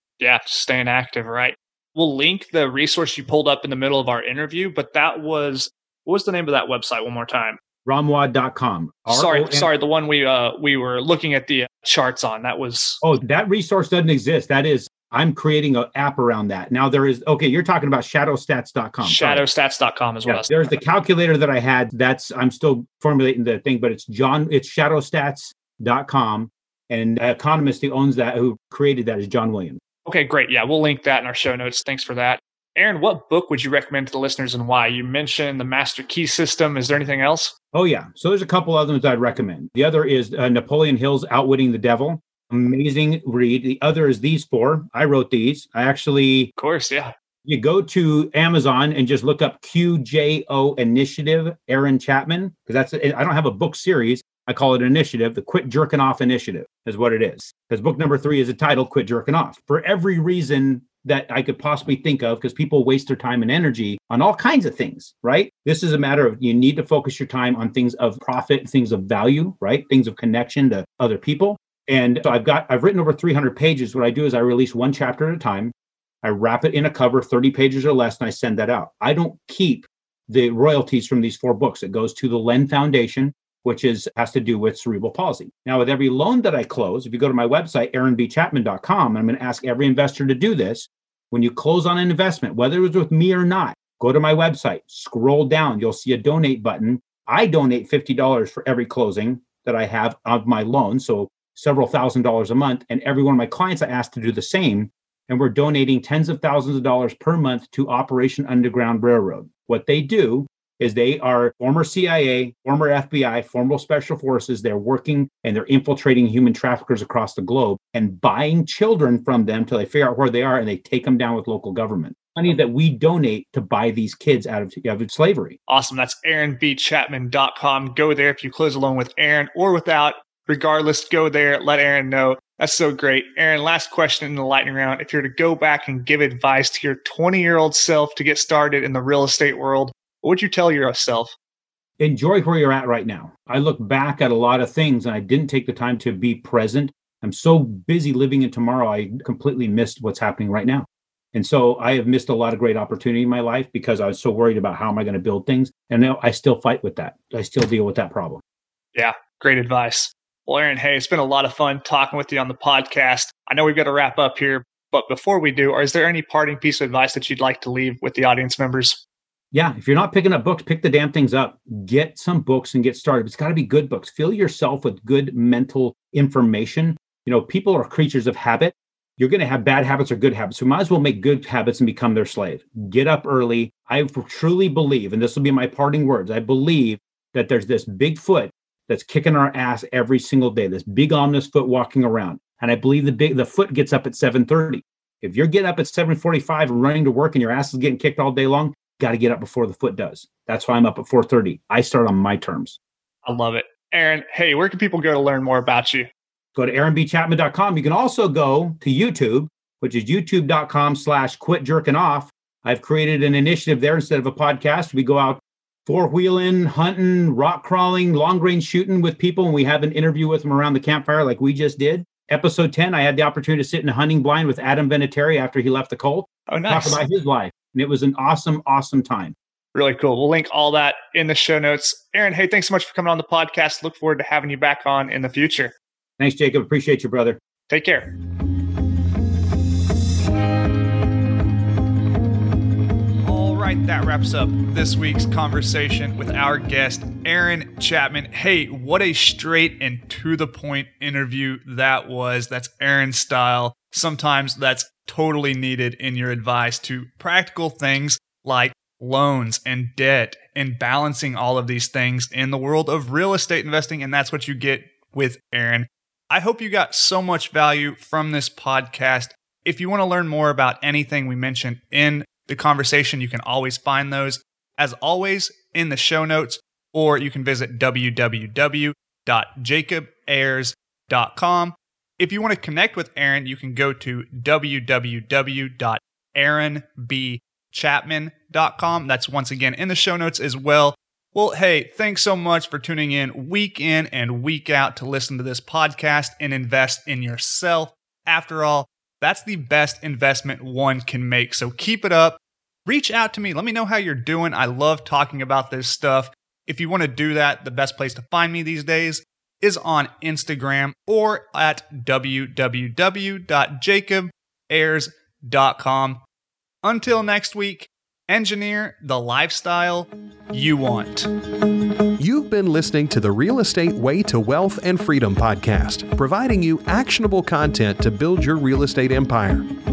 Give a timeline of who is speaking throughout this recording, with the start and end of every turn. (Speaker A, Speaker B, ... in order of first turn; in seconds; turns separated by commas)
Speaker A: 0.2-7.6, Speaker B: 7.8-9.7, Speaker A: 9.1-13.0, Speaker B: 13.0-19.4, Speaker A: 19.0-20.5, Speaker B: 20.2-29.8, Speaker A: 30.1-37.5, Speaker B: 37.7-46.5, Speaker A: 46.6-47.1, Speaker B: 47.5-125.6, Speaker A: 125.7-141.3, Speaker B: 142.0-158.4, Speaker A: 158.9-169.0, Speaker B: 169.5-202.8, Speaker A: 203.3-206.1, Speaker B: 206.6-229.3, Speaker A: 226.5-227.0, Speaker A: 229.7-235.7, Speaker B: 236.2-237.4, Speaker A: 237.7-238.1, Speaker A: 243.2-316.2, Speaker A: 316.8-321.3, Speaker C: 322.2-329.7